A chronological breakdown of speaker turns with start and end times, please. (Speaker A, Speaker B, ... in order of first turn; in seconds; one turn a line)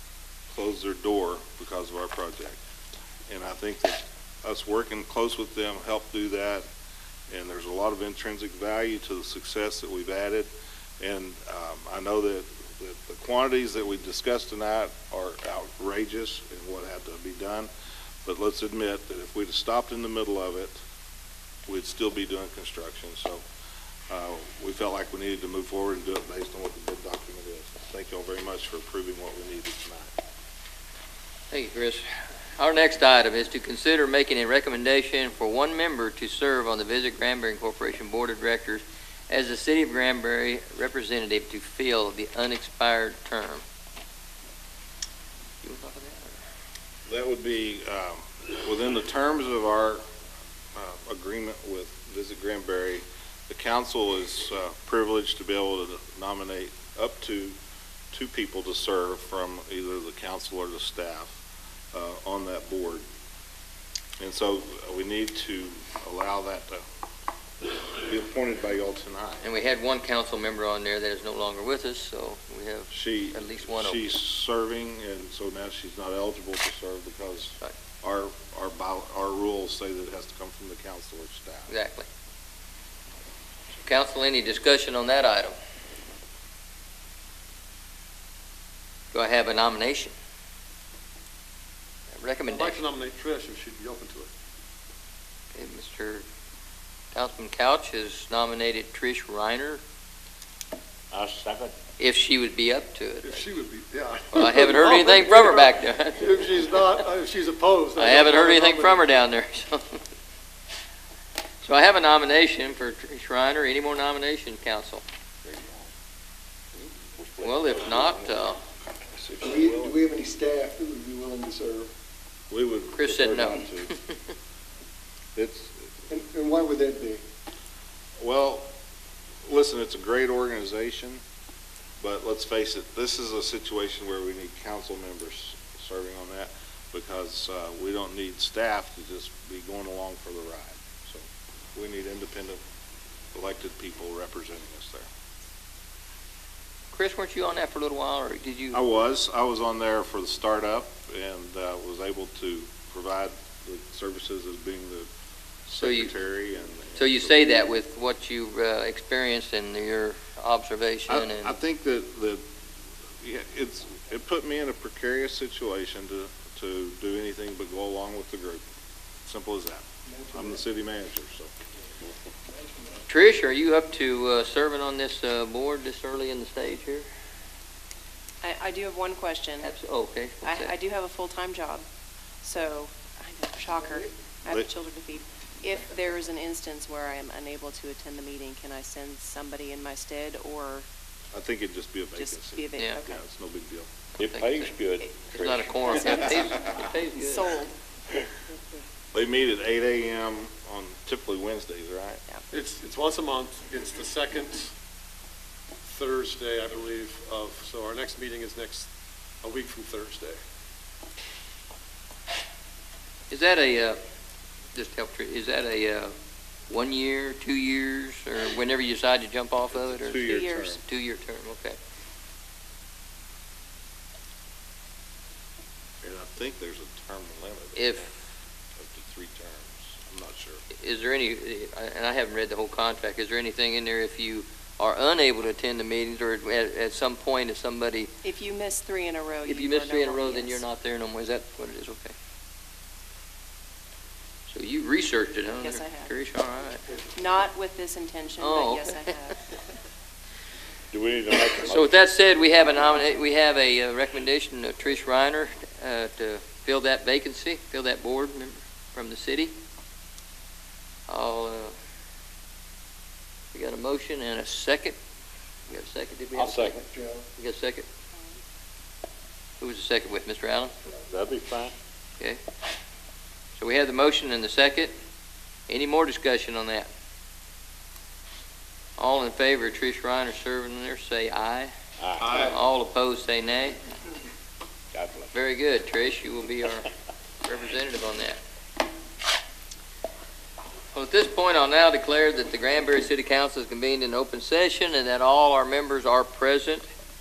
Speaker A: 0.5-2.6
Speaker A: 3.3-6.7
Speaker A: 7.3-10.5
Speaker A: 11.0-17.7
Speaker A: 18.2-20.8
Speaker A: 21.7-23.4
Speaker A: 24.1-30.2
Speaker B: 31.5-43.6
Speaker B: 45.6-46.4
Speaker A: 47.1-50.0
Speaker A: 50.8-57.6
Speaker A: 58.1-61.4
Speaker A: 61.9-63.0
Speaker A: 64.2-66.8
Speaker A: 67.9-69.5
Speaker B: 69.4-74.1
Speaker A: 72.9-81.7
Speaker B: 81.7-82.1
Speaker B: 83.8-85.5
Speaker B: 89.1-90.1
Speaker B: 92.1-92.8
Speaker C: 92.5-94.3
Speaker B: 95.5-96.2
Speaker B: 97.1-99.8
Speaker D: 101.1-101.7
Speaker B: 102.0-103.5
Speaker C: 103.2-109.1
Speaker B: 104.3-107.0
Speaker B: 108.0-110.0
Speaker B: 111.6-115.0
Speaker D: 115.5-115.7
Speaker D: 117.2-118.3
Speaker B: 117.4-118.6
Speaker A: 119.2-120.0
Speaker E: 119.4-121.9
Speaker A: 122.5-124.0
Speaker B: 123.0-124.0
Speaker A: 125.3-125.9
Speaker E: 126.1-127.2
Speaker A: 128.2-128.8
Speaker A: 129.5-131.2
Speaker A: 132.0-142.6
Speaker A: 143.3-145.1
Speaker B: 146.9-148.8
Speaker A: 148.7-155.1
Speaker A: 155.7-157.6
Speaker B: 155.8-156.1
Speaker B: 157.0-161.6
Speaker A: 161.1-162.4
Speaker A: 163.2-168.6
Speaker A: 169.2-171.5
Speaker B: 173.1-177.1
Speaker F: 178.4-179.7
Speaker B: 179.6-180.8
Speaker F: 180.4-181.8
Speaker F: 182.4-190.8
Speaker A: 191.3-193.9
Speaker F: 192.2-193.2
Speaker B: 194.2-194.7
Speaker D: 194.2-196.3
Speaker B: 195.3-197.5
Speaker F: 195.9-197.8
Speaker A: 199.1-202.2
Speaker C: 202.5-204.7
Speaker C: 205.8-208.9
Speaker C: 209.4-210.4
Speaker B: 213.3-214.0
Speaker B: 214.8-216.1
Speaker B: 216.7-221.8
Speaker A: 219.7-220.8
Speaker A: 226.0-228.1
Speaker B: 227.8-228.1
Speaker A: 228.8-230.6
Speaker B: 230.8-238.1
Speaker F: 238.2-240.6
Speaker B: 239.4-242.1
Speaker B: 244.5-246.8
Speaker F: 245.6-246.1
Speaker F: 247.1-249.4
Speaker B: 248.4-249.2
Speaker D: 250.9-252.0
Speaker B: 251.7-259.5
Speaker B: 261.1-261.7
Speaker B: 263.5-265.0
Speaker B: 265.7-266.8
Speaker D: 266.4-266.8
Speaker E: 266.9-267.2
Speaker B: 267.4-267.9
Speaker B: 269.6-270.8
Speaker D: 271.1-271.7
Speaker B: 273.6-274.9
Speaker B: 275.7-276.9
Speaker B: 279.0-283.8
Speaker D: 282.0-282.4
Speaker D: 284.9-285.3
Speaker B: 285.3-286.9
Speaker B: 287.4-288.4
Speaker B: 290.9-296.8